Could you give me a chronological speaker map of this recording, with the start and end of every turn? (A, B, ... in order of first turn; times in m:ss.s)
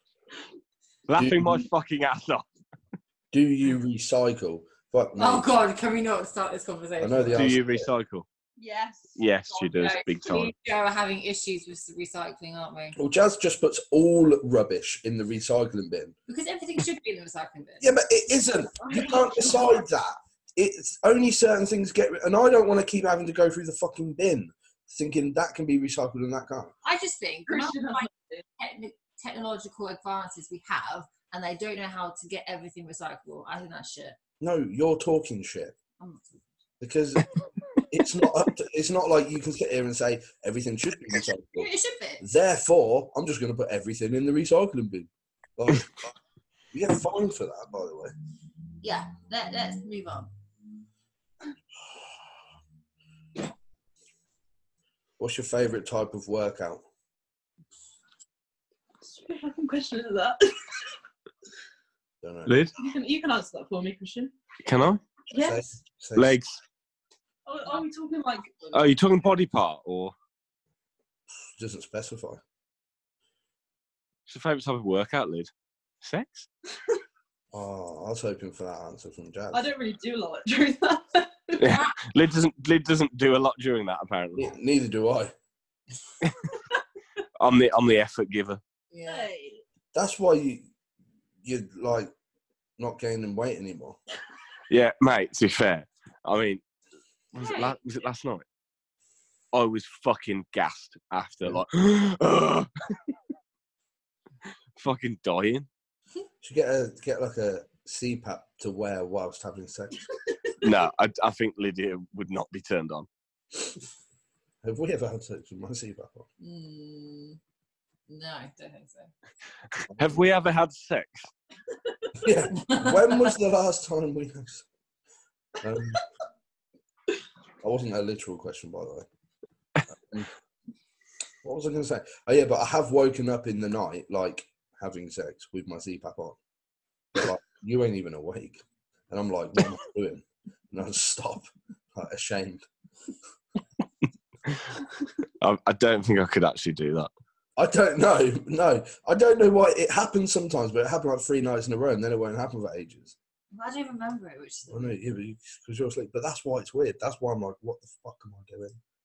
0:01.1-0:02.4 A
0:01.2-0:01.6 B
0:03.3-0:05.5 B
0:05.2-0:07.4 C
0:07.0-0:07.9 B
0:07.3-0:08.2 A
0:08.6-0:10.0 D
0:09.2-0:10.5 A
0:09.8-0:13.0 C
0:13.0-0:16.1 B
0:16.3-0:17.9 C
0:17.8-0:26.7 B
0:18.8-0:19.4 D
0:26.8-0:34.2 C
0:27.5-0:28.4 D
0:34.4-0:35.7 B
0:36.0-0:36.4 C
0:36.8-0:37.3 B
0:37.9-0:41.7 B
0:41.6-0:42.2 C
0:42.2-0:46.1 B
0:46.7-0:48.1 B
0:48.8-0:50.3 C
0:55.2-0:56.8 B
0:59.0-1:00.9 D
1:02.2-1:02.6 B
1:02.4-1:02.7 A
1:02.8-1:04.3 D
1:04.6-1:05.0 A
1:05.3-1:05.6 D
1:05.3-1:06.4 B
1:06.2-1:06.6 A
1:07.4-1:08.9 D
1:08.7-1:10.1 A
1:11.6-1:12.4 B
1:14.3-1:15.5 A
1:16.0-1:16.5 A
1:17.5-1:19.7 B
1:19.5-1:21.8 D
1:21.6-1:24.5 A
1:24.4-1:25.3 B
1:27.4-1:28.6 A
1:28.9-1:29.3 C
1:29.0-1:29.6 D
1:29.9-1:30.7 B
1:31.4-1:32.1 B
1:32.8-1:34.0 B
1:34.7-1:36.6 A
1:37.3-1:38.4 A
1:37.4-1:37.7 C
1:39.5-1:42.9 A
1:44.8-1:45.7 A
1:46.4-1:50.1 B
1:50.6-1:53.1 A
1:54.6-1:56.3 B
1:56.4-1:57.4 C
1:58.1-1:59.1 C
2:00.0-2:01.3 A
2:02.2-2:04.6 B
2:02.6-2:03.2 C
2:05.6-2:06.0 B
2:07.6-2:09.1 B
2:11.4-2:16.4 B
2:17.1-2:22.6 B
2:25.4-2:27.1 A
2:27.6-2:33.1 B
2:33.5-2:35.0 C
2:34.7-2:38.8 B